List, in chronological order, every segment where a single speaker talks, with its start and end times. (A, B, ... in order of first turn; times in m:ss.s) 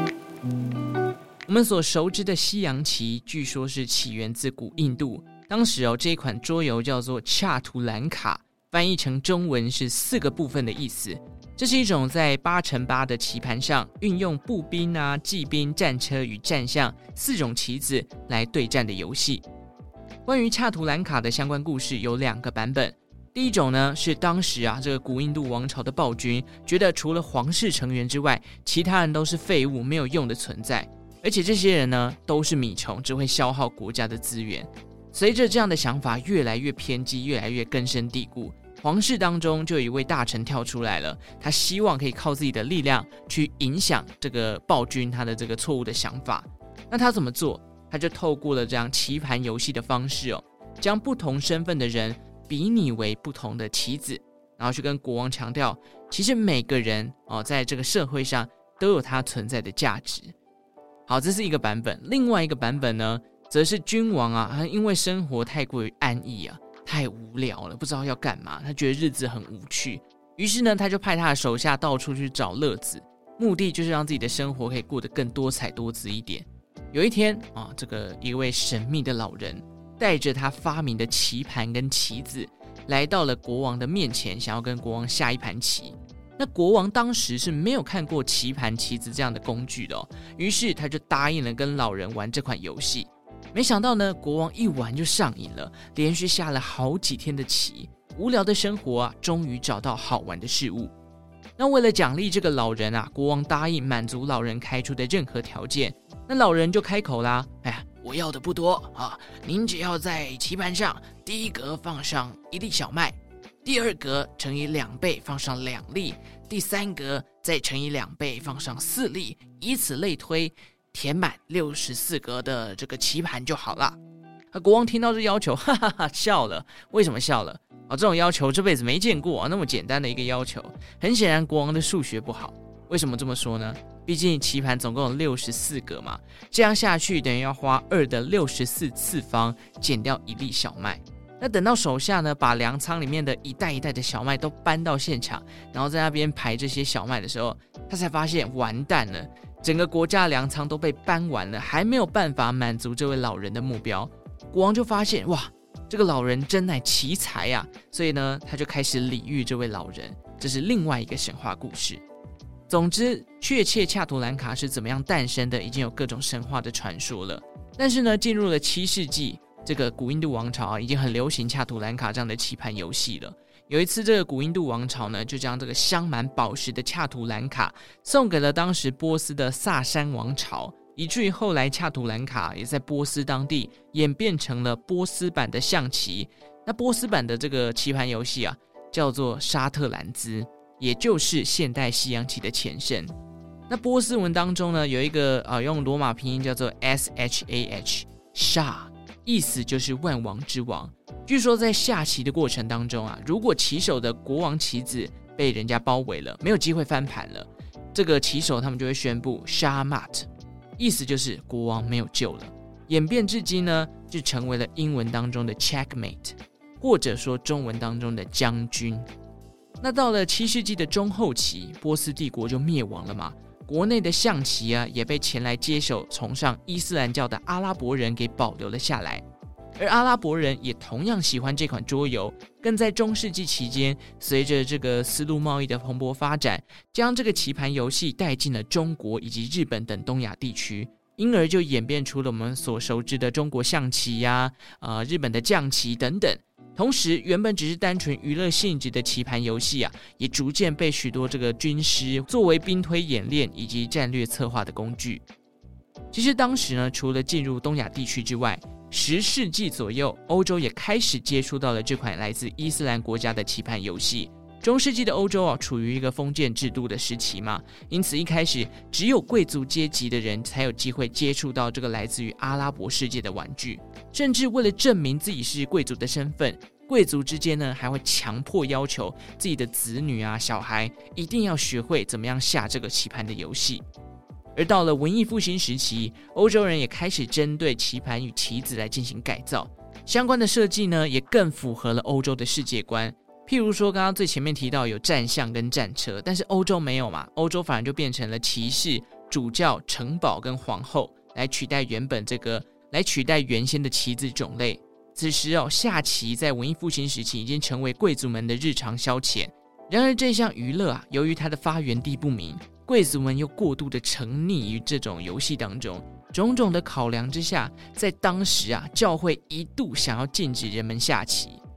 0:01.5-0:19.4 A
0:20.3-1:00.3 A
1:01.1-1:40.9 A
1:41.6-2:04.0 A
2:04.5-2:42.0 A
2:42.7-3:13.1 A
3:13.7-3:39.1 A
3:39.8-3:49.2 A
3:49.8-4:15.3 A
4:16.1-4:43.8 A
4:44.6-5:21.6 A